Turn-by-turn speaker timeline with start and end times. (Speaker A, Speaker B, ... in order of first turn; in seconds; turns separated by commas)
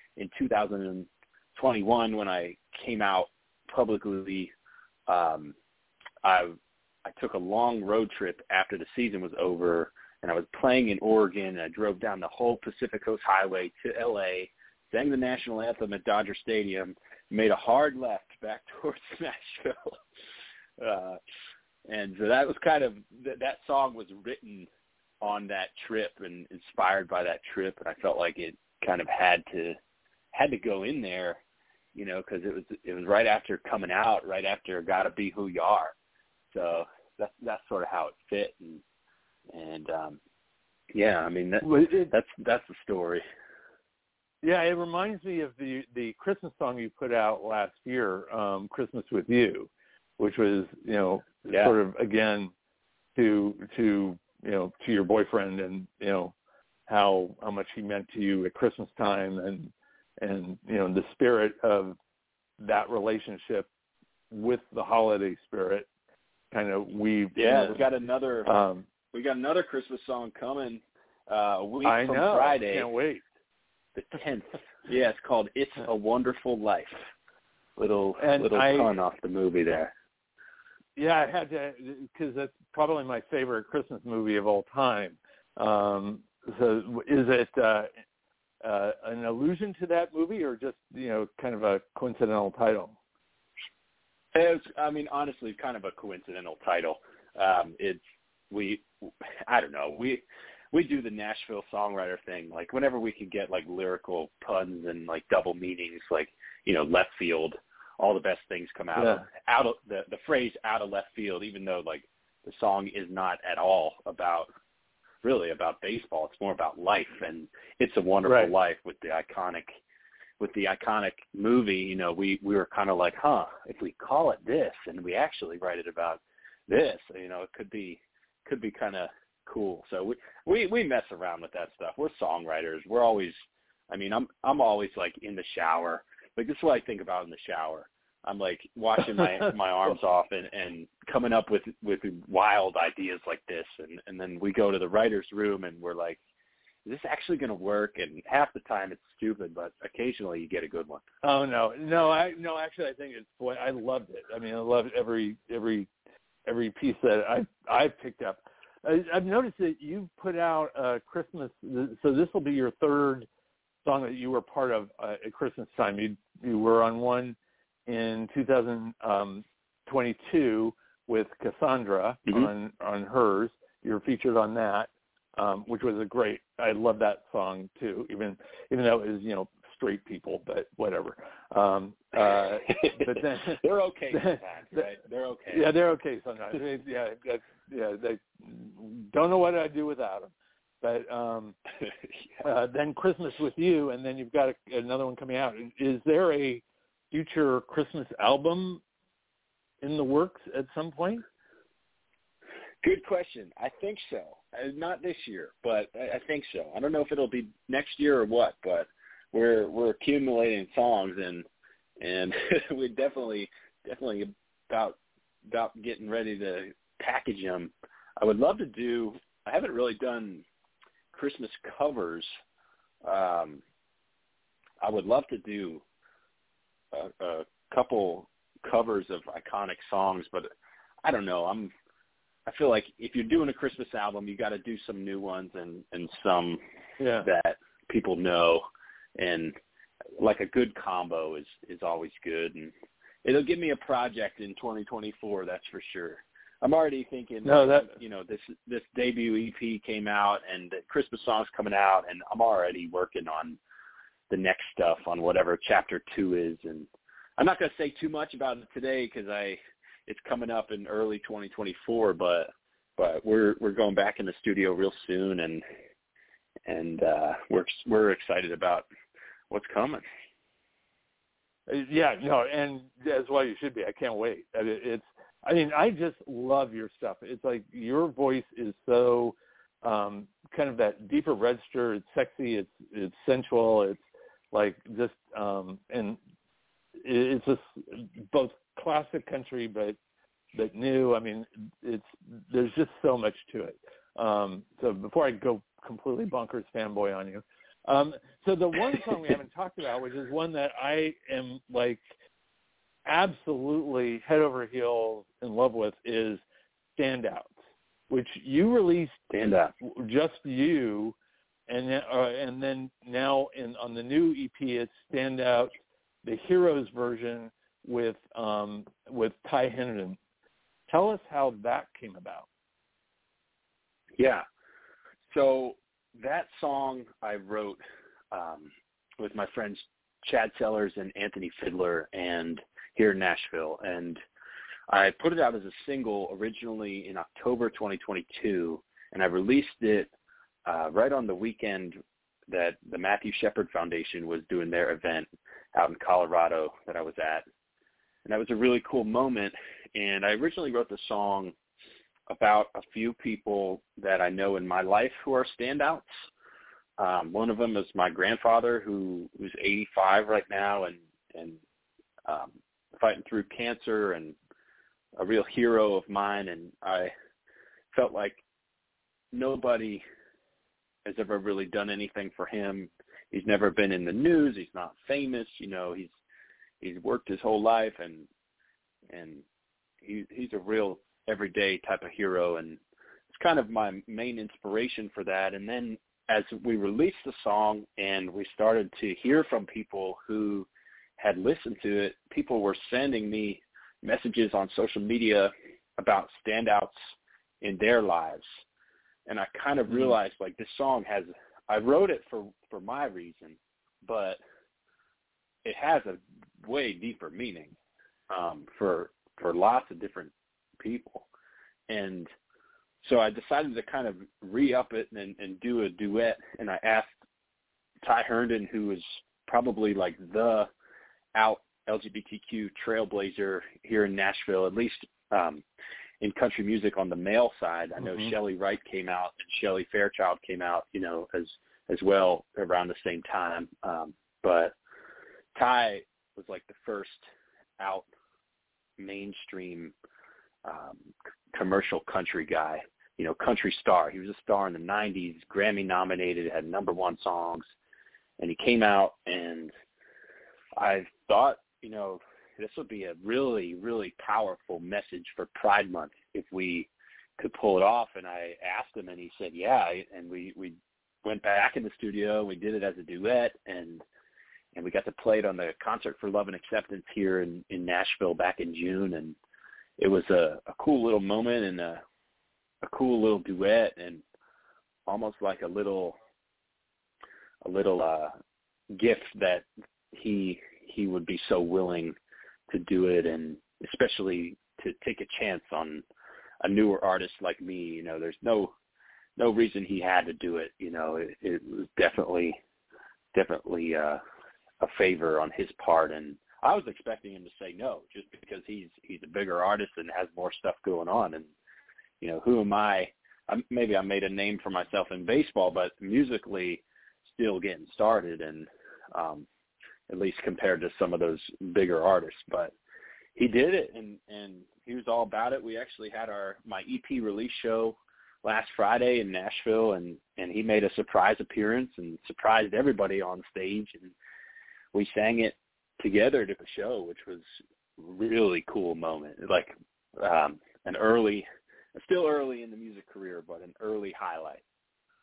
Speaker A: 0.2-4.5, Speaker A: 5.1-5.5, Speaker A: 6.2-20.0, Speaker A: 20.8-21.2, Speaker A: 21.9-24.7, Speaker A: 25.2-29.8, Speaker A: 30.3-31.4, Speaker A: 31.9-35.9, Speaker A: 36.5-38.8, Speaker A: 39.5-40.2, Speaker A: 40.9-43.2, Speaker B: 41.6-42.1, Speaker B: 44.4-52.5, Speaker A: 51.5-51.8, Speaker B: 53.1-56.3, Speaker B: 56.9-62.0, Speaker B: 62.6-63.7, Speaker B: 64.3-65.9, Speaker B: 66.5-67.8, Speaker A: 67.3-68.5, Speaker B: 68.4-68.9, Speaker A: 69.1-72.9, Speaker B: 71.8-73.2, Speaker A: 73.9-77.0, Speaker A: 77.8-79.9, Speaker B: 78.2-78.9, Speaker B: 81.0-87.9, Speaker B: 88.6-93.0, Speaker A: 94.3-98.8, Speaker A: 99.4-114.5, Speaker B: 109.0-109.2, Speaker A: 115.2-119.7, Speaker B: 118.2-118.5, Speaker A: 120.4-133.3, Speaker A: 133.9-146.2, Speaker A: 146.8-151.0, Speaker B: 151.2-155.9, Speaker B: 156.4-163.3, Speaker B: 163.8-167.3, Speaker B: 167.9-183.6, Speaker A: 182.7-185.7, Speaker B: 184.1-184.8, Speaker B: 185.5-190.3, Speaker B: 190.8-191.5, Speaker B: 192.4-198.8, Speaker B: 199.8-201.2, Speaker A: 202.8-211.4, Speaker A: 212.0-215.0, Speaker A: 215.5-220.4, Speaker A: 221.1-222.3, Speaker A: 223.0-223.6, Speaker A: 224.8-225.8, Speaker A: 226.9-230.5, Speaker A: 231.0-231.7, Speaker A: 232.4-236.6, Speaker B: 237.0-237.3, Speaker A: 237.2-238.6, Speaker A: 239.2-239.6, Speaker A: 240.2-242.7, Speaker A: 243.2-253.6, Speaker B: 247.4-247.9, Speaker A: 254.3-265.6, Speaker A: 266.6-268.9, Speaker A: 269.5-270.0, Speaker B: 271.7-284.0, Speaker B: 284.5-286.2, Speaker B: 287.0-290.0, Speaker B: 290.5-302.0, Speaker B: 303.1-306.4, Speaker B: 307.0-307.5, Speaker B: 308.1-309.2, Speaker A: 309.3-309.7, Speaker B: 309.8-311.1, Speaker B: 311.7-320.2, Speaker B: 320.9-322.5, Speaker A: 324.2-324.4, Speaker A: 325.3-327.8, Speaker A: 328.3-334.2, Speaker A: 334.9-340.1, Speaker A: 340.6-342.0, Speaker A: 342.5-347.4, Speaker A: 348.2-351.5, Speaker A: 352.3-356.1, Speaker A: 357.0-361.6, Speaker A: 362.2-364.3, Speaker A: 365.2-367.1, Speaker A: 367.9-368.4, Speaker A: 369.3-370.0, Speaker A: 371.0-376.1, Speaker A: 376.8-378.3, Speaker A: 379.1-379.4, Speaker A: 380.0-382.8, Speaker A: 383.3-390.7, Speaker A: 391.2-397.0, Speaker A: 397.6-398.6, Speaker A: 399.3-404.4, Speaker B: 399.9-400.1, Speaker A: 405.6-407.7, Speaker A: 408.3-411.2, Speaker A: 411.9-412.3, Speaker A: 413.0-417.1, Speaker A: 418.0-420.7, Speaker A: 421.3-425.6, Speaker A: 426.2-434.7, Speaker B: 428.0-428.3, Speaker A: 435.5-437.2, Speaker A: 437.8-438.1, Speaker A: 439.0-439.9, Speaker A: 440.6-447.6, Speaker A: 448.4-449.7, Speaker A: 450.8-464.0, Speaker A: 464.7-469.4, Speaker A: 470.0-472.0, Speaker A: 472.8-474.2, Speaker A: 475.1-476.2, Speaker A: 477.6-478.3, Speaker A: 478.9-482.1, Speaker A: 482.7-486.0, Speaker A: 486.6-488.7, Speaker A: 489.4-492.6, Speaker A: 493.3-494.2, Speaker A: 494.8-501.5, Speaker A: 502.2-509.4, Speaker A: 510.1-512.7, Speaker A: 513.4-524.1, Speaker A: 524.9-527.5, Speaker A: 528.0-534.6